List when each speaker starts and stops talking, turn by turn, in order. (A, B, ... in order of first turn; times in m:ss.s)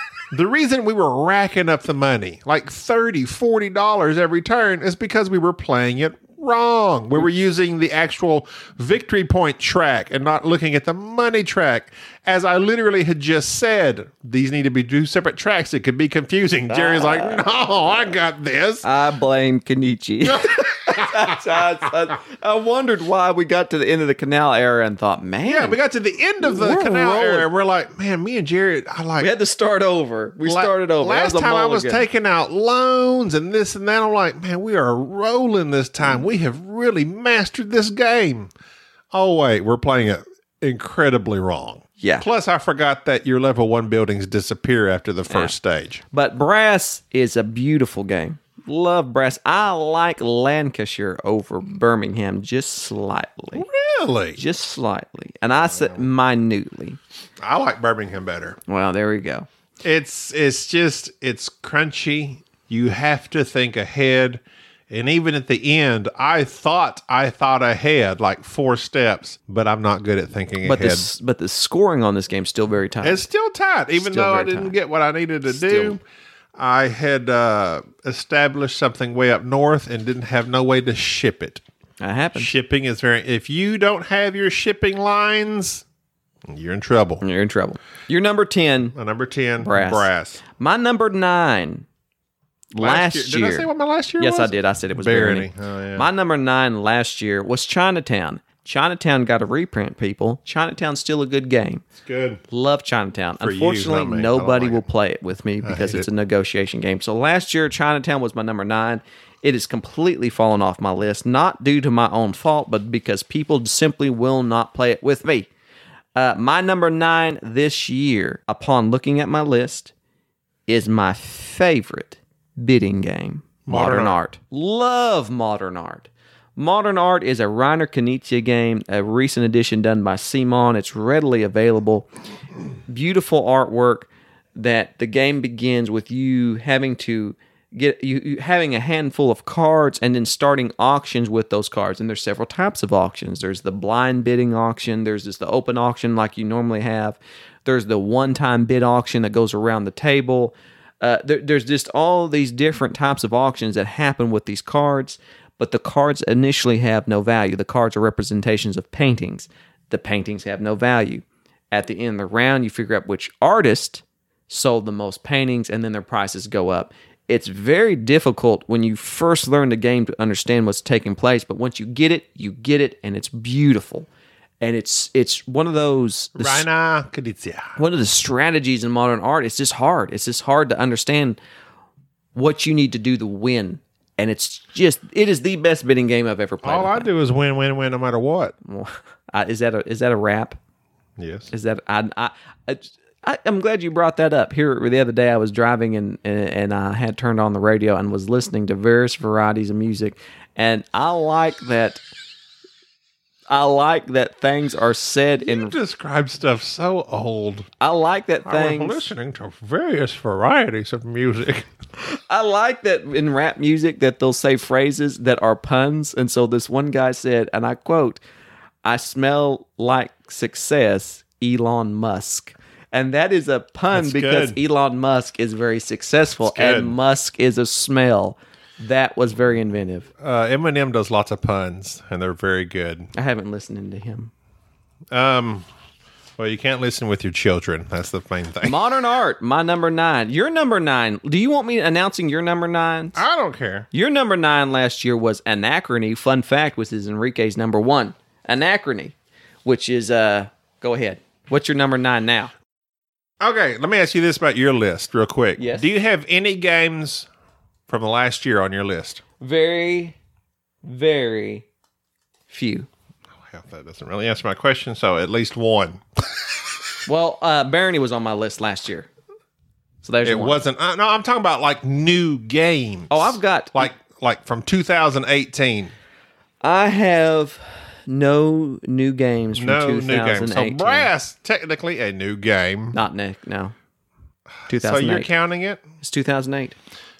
0:00.3-0:18.8 A
0:16.7-0:17.4 B
0:18.8-0:25.8 B
0:20.2-0:21.4 A
0:25.4-0:29.3 A
0:26.4-0:27.5 B
0:29.2-0:32.0 B
0:30.4-0:38.5 A
0:39.1-0:46.0 A
0:42.0-0:42.2 B
0:45.3-0:45.5 B
0:46.1-0:53.6 B
0:53.5-0:54.4 A
0:54.4-0:57.0 B
0:55.6-0:56.1 A
0:57.4-0:58.6 A
0:58.7-0:59.5 B
0:59.8-1:11.0 A
1:10.6-1:13.2 B
1:13.0-1:16.0 A
1:14.0-1:14.7 B
1:15.5-1:16.0 B
1:16.6-1:21.6 A
1:22.0-1:22.5 B
1:22.4-1:25.8 A
1:26.5-1:27.2 A
1:27.2-1:28.9 B
1:28.9-1:30.4 A
1:29.6-1:31.8 B
1:32.7-1:33.7 B
1:32.8-1:36.1 A
1:34.2-1:41.8 B
1:42.0-1:42.4 A
1:42.5-1:55.5 B
1:43.4-1:44.8 A
1:45.6-1:46.1 A
1:56.2-1:59.9 B
2:00.7-2:12.1 B
2:03.6-2:04.2 A
2:12.9-2:54.1 B
2:54.6-2:56.6 B
2:56.4-2:57.8 A
2:57.8-3:01.4 B
3:02.3-3:07.1 B
3:06.6-3:08.5 A
3:08.6-3:10.6 B
3:11.2-3:11.5 A
3:11.5-3:22.0 B
3:23.5-3:25.7 B
3:25.4-3:27.7 A
3:27.8-3:29.0 B
3:28.4-3:31.7 A
3:32.0-3:38.2 B
3:38.8-3:50.1 B
3:43.9-3:44.6 A
3:46.4-3:47.0 A
3:50.2-3:53.1 A
3:53.1-3:54.3 B
3:55.1-3:55.6 A
3:56.4-3:58.8 A
3:58.6-4:03.2 B
4:03.1-4:03.9 A
4:03.9-4:12.5 B
4:13.4-4:17.3 A
4:15.6-4:15.9 B
4:17.9-4:19.2 A
4:19.4-4:20.2 B
4:20.8-4:21.6 B
4:22.5-4:22.9 B
4:23.5-4:26.4 A
4:27.0-4:29.1 B
4:30.0-4:30.6 B
4:30.2-4:35.9 A
4:33.1-4:33.9 B
4:36.6-4:41.1 B
4:39.5-4:43.0 A
4:42.9-4:43.7 B
4:44.6-4:45.8 A
4:44.7-4:45.3 B
4:46.0-4:46.8 B